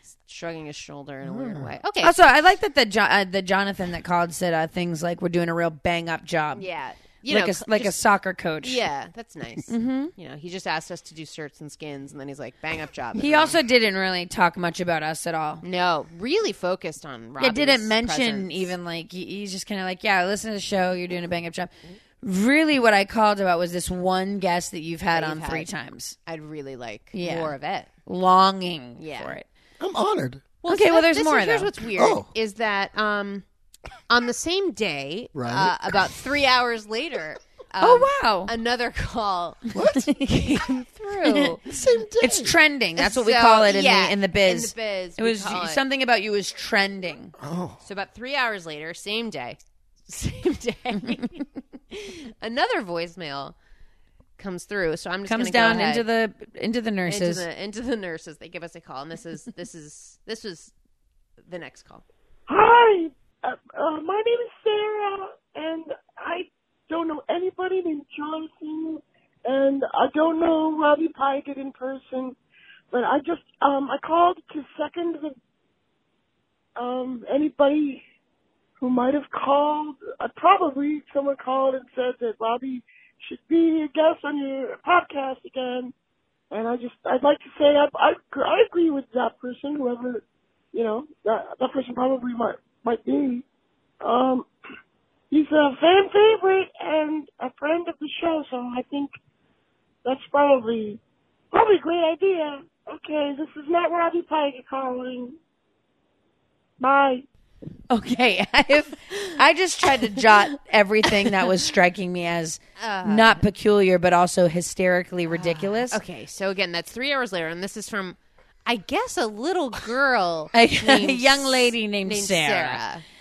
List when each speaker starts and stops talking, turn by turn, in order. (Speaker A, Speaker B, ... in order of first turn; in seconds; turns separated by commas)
Speaker A: 0.2-2.2, Speaker B: 1.2-1.7, Speaker C: 2.0-6.6, Speaker A: 6.5-8.0, Speaker C: 7.3-8.8, Speaker A: 8.6-13.6, Speaker C: 9.7-10.1, Speaker C: 13.2-15.6, Speaker A: 15.6-18.7, Speaker C: 17.4-26.1, Speaker A: 25.1-25.7, Speaker A: 26.2-27.9, Speaker C: 27.1-27.5, Speaker C: 28.1-29.4, Speaker A: 29.0-29.4, Speaker B: 29.8-30.4, Speaker A: 30.6-33.4, Speaker C: 30.7-31.7, Speaker B: 31.9-32.3, Speaker A: 34.1-41.7, Speaker B: 35.3-36.0, Speaker C: 37.8-38.5, Speaker B: 39.7-40.1, Speaker C: 40.0-40.7, Speaker C: 41.2-41.5, Speaker B: 41.7-42.5, Speaker C: 42.2-47.3, Speaker A: 43.0-45.8, Speaker B: 47.4-47.8, Speaker A: 47.8-53.5, Speaker A: 54.4-56.0, Speaker C: 55.3-57.4, Speaker A: 57.1-60.7, Speaker A: 61.5-62.0, Speaker D: 62.5-72.3, Speaker D: 72.9-75.3, Speaker D: 76.8-78.0, Speaker D: 78.8-85.9, Speaker D: 86.5-93.4, Speaker D: 94.0-94.5, Speaker D: 95.3-99.1, Speaker D: 100.0-101.0, Speaker D: 101.5-105.3, Speaker D: 106.8-107.2, Speaker C: 107.9-116.0, Speaker A: 112.8-113.4, Speaker A: 115.3-123.0, Speaker C: 120.5-122.8